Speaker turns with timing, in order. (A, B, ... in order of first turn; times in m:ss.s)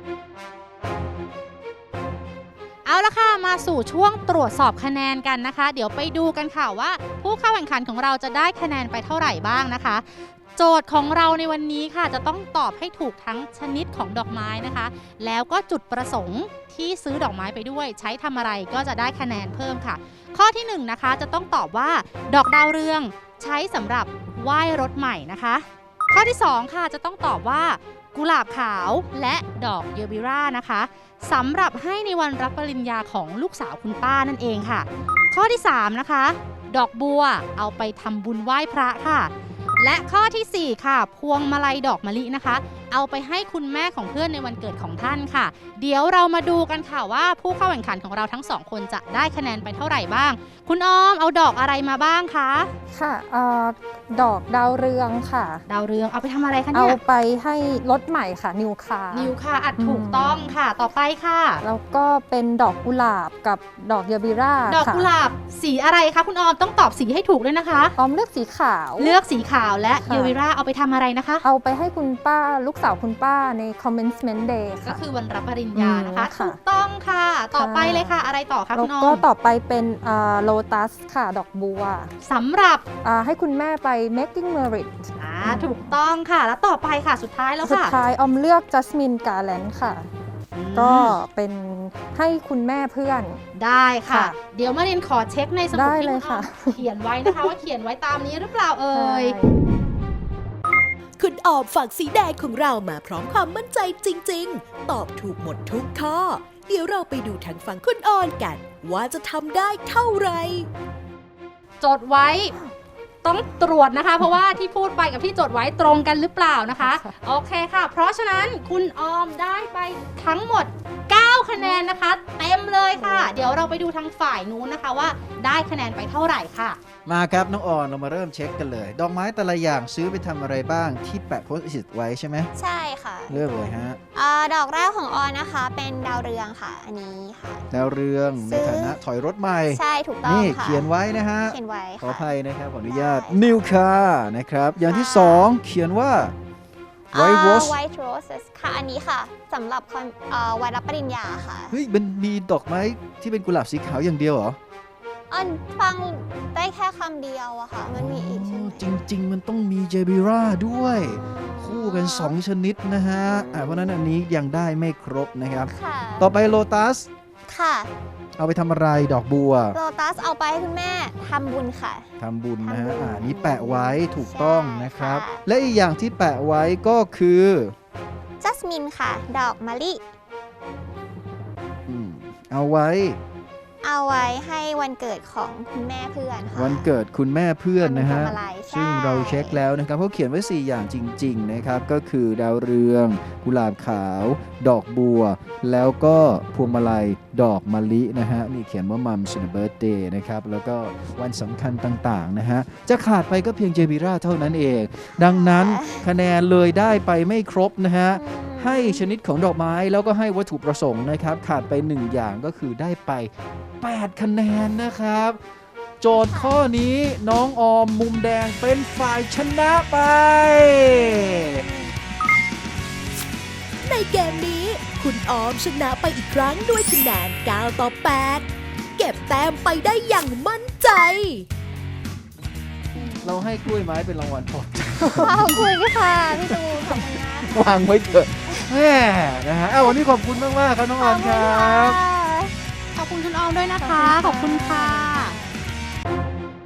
0:02.8-0:52.7 A
0:52.9-0:55.6 B
0:55.7-0:57.0 A
0:56.7-1:00.6 B
0:59.1-1:01.6 A
1:01.6-1:05.1 B
1:04.7-1:08.0 A
1:08.0-1:09.2 B
1:09.0-1:11.4 A
1:10.0-1:10.3 B
1:11.4-1:15.0 B
1:14.8-1:19.2 A
1:15.7-1:16.6 B
1:17.5-1:18.1 B
1:18.7-1:22.1 B
1:22.2-1:22.8 A
1:23.0-1:26.0 B
1:25.2-1:27.9 A
1:27.6-1:30.1 B
1:30.5-1:31.2 A
1:30.7-1:33.4 B
1:33.5-1:39.4 A
1:34.1-1:34.4 B
1:35.7-1:37.5 B
1:38.9-1:39.6 B
1:41.2-1:50.7 C
1:51.8-1:52.5 A
1:53.2-2:06.8 A
1:56.7-1:57.1 B
2:01.6-2:01.9 B
2:07.0-2:12.5 D
2:12.6-2:17.6 E
2:13.3-2:14.0 D
2:17.7-2:26.3 D
2:18.4-2:19.0 E
2:19.7-2:20.9 E
2:21.4-2:22.3 E
2:22.8-2:23.6 E
2:24.8-2:25.5 E
2:27.1-2:31.7 E
2:27.1-2:27.8 D
2:31.7-2:34.6 D
2:35.3-2:38.8 E
2:37.9-2:47.1 D
2:40.8-2:42.4 E
2:43.2-2:44.1 E
2:45.7-2:46.3 E
2:47.5-2:47.9 E
2:48.4-2:49.8 D
2:49.7-2:52.1 E
2:52.2-2:57.7 D
2:52.6-2:55.4 E
2:58.4-3:00.0 E
3:01.9-3:03.2 D
3:03.8-3:06.9 E
3:06.5-3:35.4 D
3:07.8-3:09.6 E
3:25.2-3:26.0 E
3:28.1-3:29.0 E
3:36.0-3:41.6 D
3:36.1-3:36.6 E
3:40.9-3:41.9 E
3:43.8-3:51.5 C
3:52.9-3:53.4 E
3:53.2-4:02.0 D
3:55.1-3:57.8 E
4:01.0-4:02.5 E
4:02.9-4:05.3 A
4:03.8-4:05.6 E